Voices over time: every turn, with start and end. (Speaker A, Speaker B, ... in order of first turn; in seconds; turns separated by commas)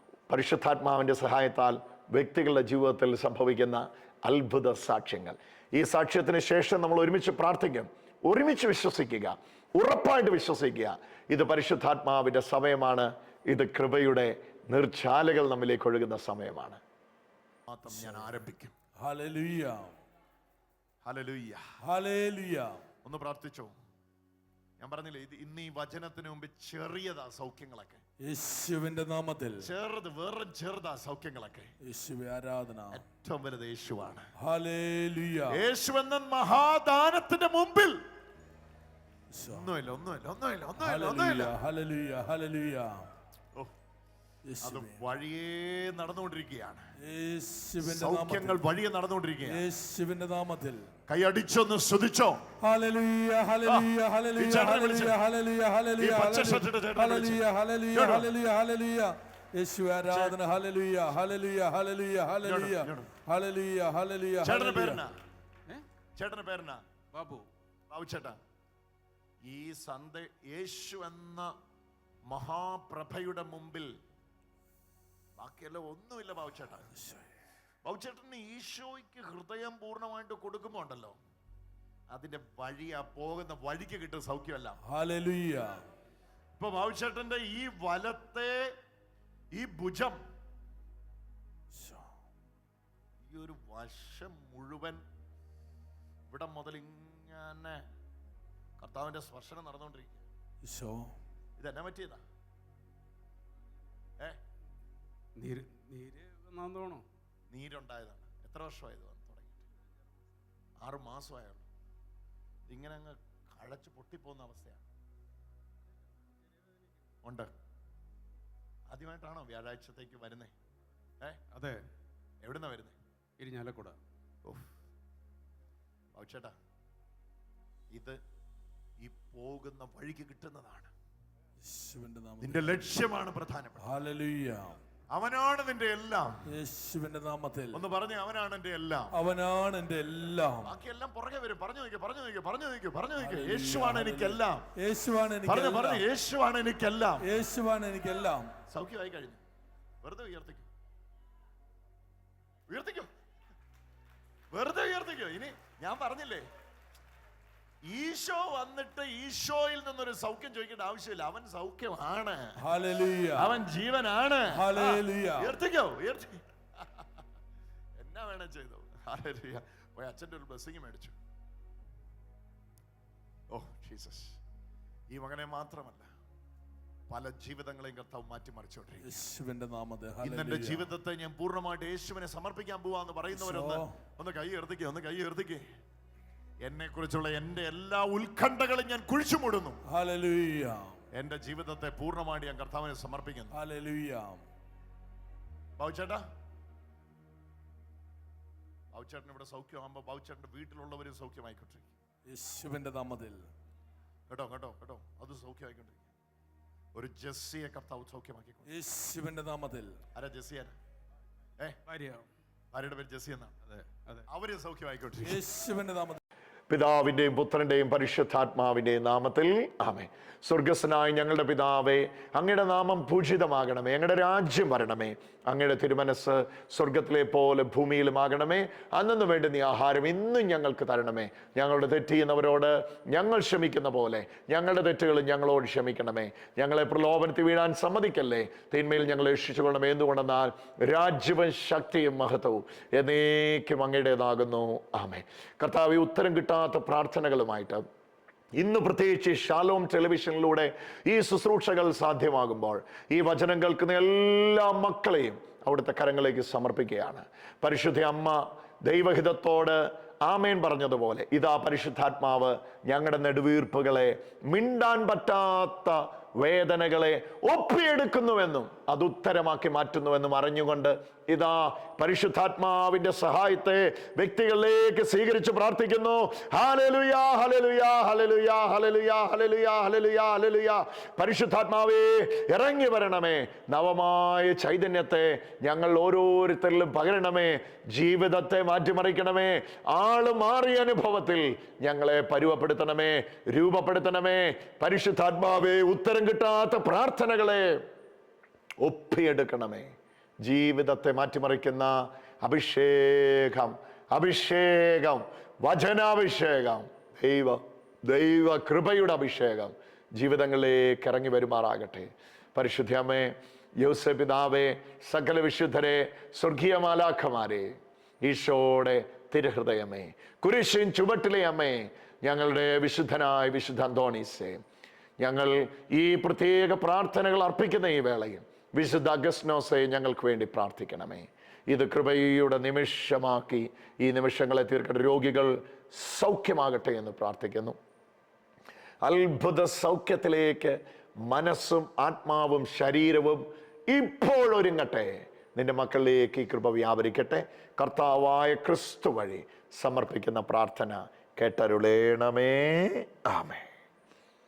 Speaker A: 0.3-16.8, Speaker A: 17.7-18.8, Speaker B: 17.9-18.3, Speaker B: 19.0-19.9, Speaker A: 21.0-21.6, Speaker B: 21.8-22.8, Speaker A: 23.0-23.7, Speaker A: 24.8-28.0, Speaker B: 28.2-29.7, Speaker A: 29.6-31.7, Speaker B: 31.8-33.0, Speaker A: 32.9-34.3, Speaker B: 34.4-35.6, Speaker A: 35.5-38.0, Speaker B: 39.3-39.7, Speaker A: 39.5-41.5, Speaker B: 40.8-43.1, Speaker B: 44.5-45.0, Speaker A: 44.6-46.9, Speaker B: 47.0-48.6, Speaker A: 47.8-49.6, Speaker B: 49.4-50.9, Speaker A: 51.1-52.5, Speaker B: 52.6-65.0, Speaker A: 53.6-55.2, Speaker A: 56.0-58.3, Speaker A: 60.1-60.4, Speaker A: 62.4-63.1, Speaker A: 64.4-65.2, Speaker A: 66.2-66.8, Speaker C: 67.1-67.5, Speaker A: 67.9-68.4, Speaker A: 69.4-71.5, Speaker A: 72.3-73.9, Speaker A: 75.4-76.9, Speaker B: 77.0-77.2, Speaker A: 77.8-81.2, Speaker A: 82.1-84.8, Speaker B: 84.8-85.8, Speaker A: 86.5-88.7, Speaker A: 89.5-90.2, Speaker B: 91.7-92.1, Speaker A: 93.3-95.0, Speaker A: 96.3-97.8, Speaker A: 98.8-100.2, Speaker B: 100.6-101.1, Speaker A: 101.6-102.2, Speaker C: 105.4-107.0, Speaker A: 107.5-109.6, Speaker A: 110.8-111.7, Speaker A: 112.7-114.8, Speaker A: 117.2-117.5, Speaker A: 118.9-120.5, Speaker C: 121.5-121.8, Speaker A: 122.4-123.0, Speaker C: 123.4-124.0, Speaker A: 126.1-126.5, Speaker A: 127.9-128.2, Speaker A: 129.0-130.9, Speaker B: 131.6-132.9, Speaker A: 132.4-133.9, Speaker B: 133.8-134.8, Speaker A: 135.1-136.5, Speaker B: 136.5-137.8, Speaker A: 137.7-139.1, Speaker B: 139.1-140.7, Speaker A: 140.6-144.7, Speaker B: 143.2-146.0, Speaker A: 145.4-147.3, Speaker B: 147.2-148.5, Speaker A: 148.7-149.4, Speaker A: 150.0-150.7, Speaker A: 152.7-153.1, Speaker A: 154.5-156.5, Speaker A: 157.8-162.6, Speaker B: 162.6-163.6, Speaker A: 163.3-167.0, Speaker B: 164.5-165.6, Speaker A: 168.0-171.2, Speaker A: 173.5-174.4, Speaker A: 175.1-176.1, Speaker A: 177.1-179.2, Speaker B: 179.0-180.9, Speaker A: 180.2-185.7, Speaker B: 183.3-184.0, Speaker A: 186.6-189.8, Speaker B: 189.8-191.0, Speaker A: 191.1-193.6, Speaker B: 193.5-194.4, Speaker A: 195.8-196.2, Speaker A: 198.9-201.9, Speaker B: 202.3-203.5, Speaker A: 204.3-206.1, Speaker A: 206.9-208.7, Speaker B: 208.7-210.0, Speaker A: 210.1-210.8, Speaker C: 211.9-212.3, Speaker A: 212.7-213.5, Speaker C: 213.7-214.2, Speaker A: 214.3-215.4, Speaker B: 215.2-216.2, Speaker A: 216.7-247.8, Speaker A: 248.6-297.8, Speaker A: 298.8-299.9, Speaker A: 300.4-324.6, Speaker A: 325.2-337.8, Speaker A: 339.0-353.6